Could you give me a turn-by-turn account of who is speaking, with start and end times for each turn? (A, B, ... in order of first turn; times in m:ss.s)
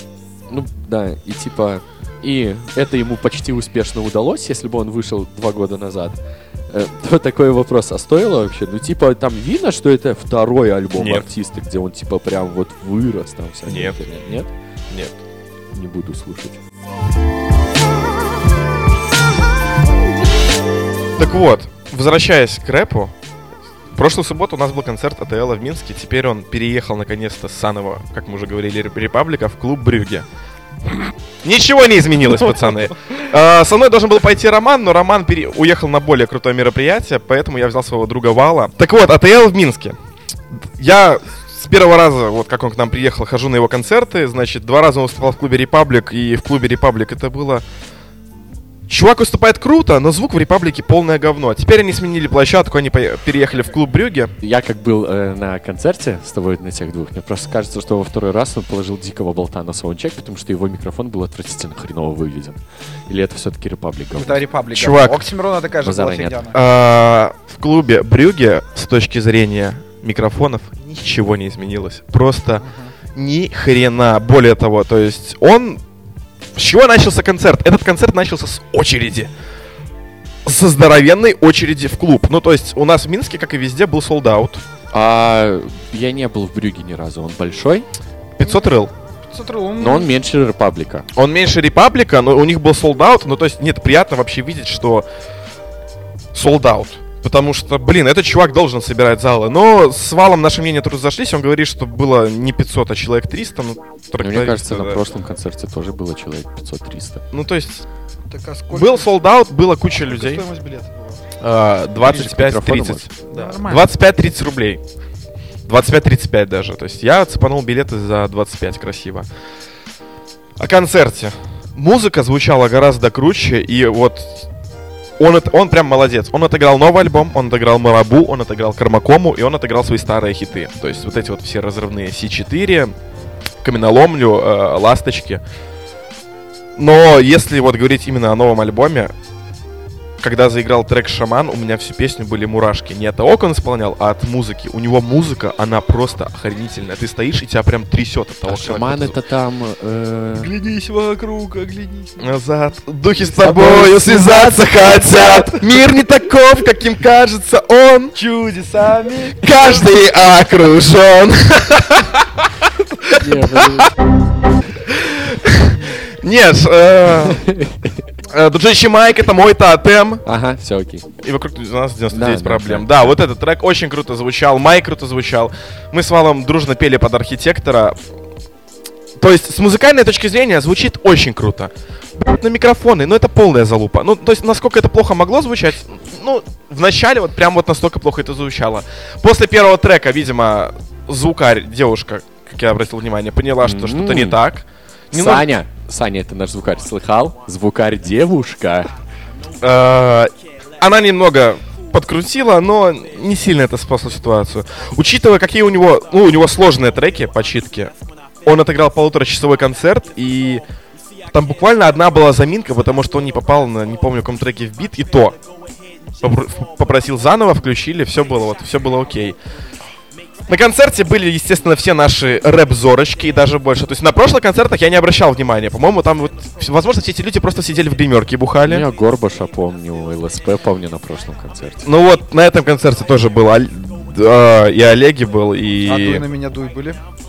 0:00.5-0:14.5 A
0:11.0-0:11.3 B
0:13.7-0:14.0 B
0:15.7-0:16.6 A
0:21.2-0:23.1 B
0:24.0-0:30.3 B
0:31.4-0:40.0 B
0:40.6-0:47.6 B
0:48.9-0:54.3 B
0:54.4-1:04.4 A
1:04.2-1:06.6 C
1:04.7-1:05.3 B
1:05.8-1:06.4 A
1:06.5-1:15.8 B
1:12.6-1:12.9 C
1:16.6-1:19.3 B
1:20.5-1:24.6 B
1:24.9-1:27.9 A
1:28.4-1:28.9 B
1:28.4-1:28.7 C
1:29.2-1:30.1 C
1:29.8-1:31.1 A
1:31.2-1:35.1 B
1:36.3-1:45.0 B
1:44.2-1:47.2 A
1:47.3-1:47.9 B
1:48.3-1:49.2 C
1:48.7-1:50.4 B
1:50.0-1:51.2 C
1:51.4-1:54.8 B
1:52.0-1:53.0 A
1:53.3-1:53.8 C
1:55.7-1:59.3 B
2:00.6-2:04.5 B
2:05.2-2:12.9 B
2:13.6-2:15.4 B
2:16.8-2:19.1 B
2:20.2-2:29.2 B
2:28.5-2:30.5 A
2:30.4-2:32.2 C
2:32.2-2:38.2 B
2:33.3-2:35.8 C
2:38.2-2:39.8 C
2:39.4-2:43.9 B
2:43.2-2:43.9 A
2:44.9-2:47.4 B
2:47.3-2:48.0 A
2:48.3-2:50.2 B
2:50.2-2:51.1 A
2:51.2-2:58.0 B
2:52.1-2:53.2 A
2:59.2-3:15.5 B
3:13.6-3:14.4 A
3:15.1-3:18.9 A
3:19.6-3:27.9 B
3:28.4-3:30.6 B
3:31.3-3:35.4 B
3:36.2-3:39.4 B
3:40.5-3:48.9 B
3:48.7-3:51.9 A
3:51.8-3:56.2 B
3:55.8-3:57.0 C